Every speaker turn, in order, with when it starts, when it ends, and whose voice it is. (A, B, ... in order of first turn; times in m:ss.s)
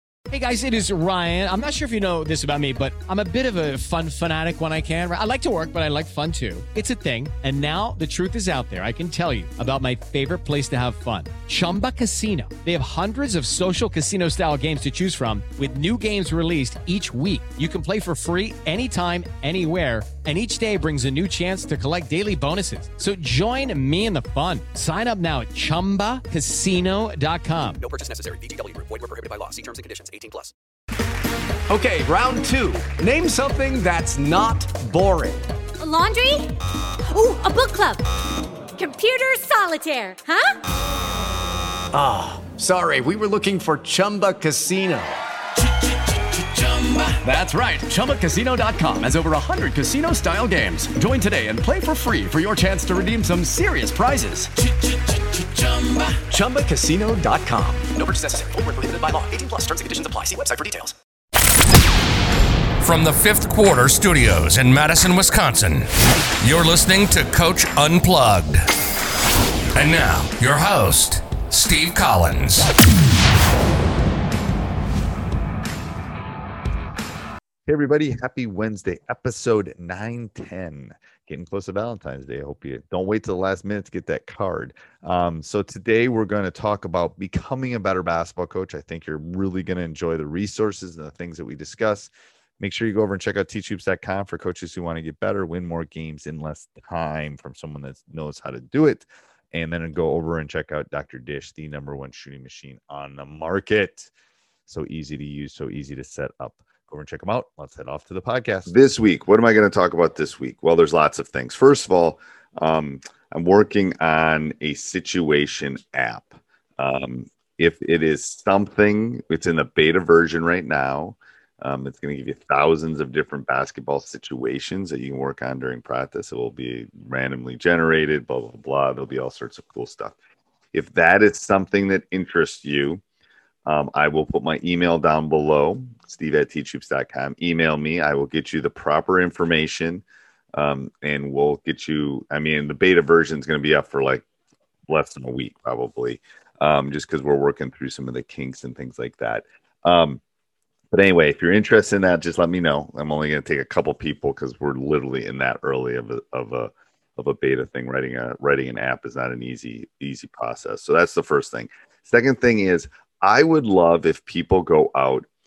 0:00.3-0:27.8 A
0:27.8-0:30.5 B
0:31.7-0:35.4 C
0:35.8-0:36.5 D
0:37.1-0:38.0 D
0:38.8-0:40.5 D
0:41.9-0:45.2 C
0:46.5-0:54.5 C
0:56.2-0:57.9 C
0:57.9-1:00.8 B
1:00.2-1:00.9 C
1:02.8-1:05.9 E
1:06.4-1:08.6 E
1:09.8-1:12.7 E
1:17.6-1:44.1 F
1:44.6-2:10.2 F
2:10.7-2:13.0 F
2:13.6-2:24.2 F
2:24.9-2:30.2 F
2:30.9-2:45.3 F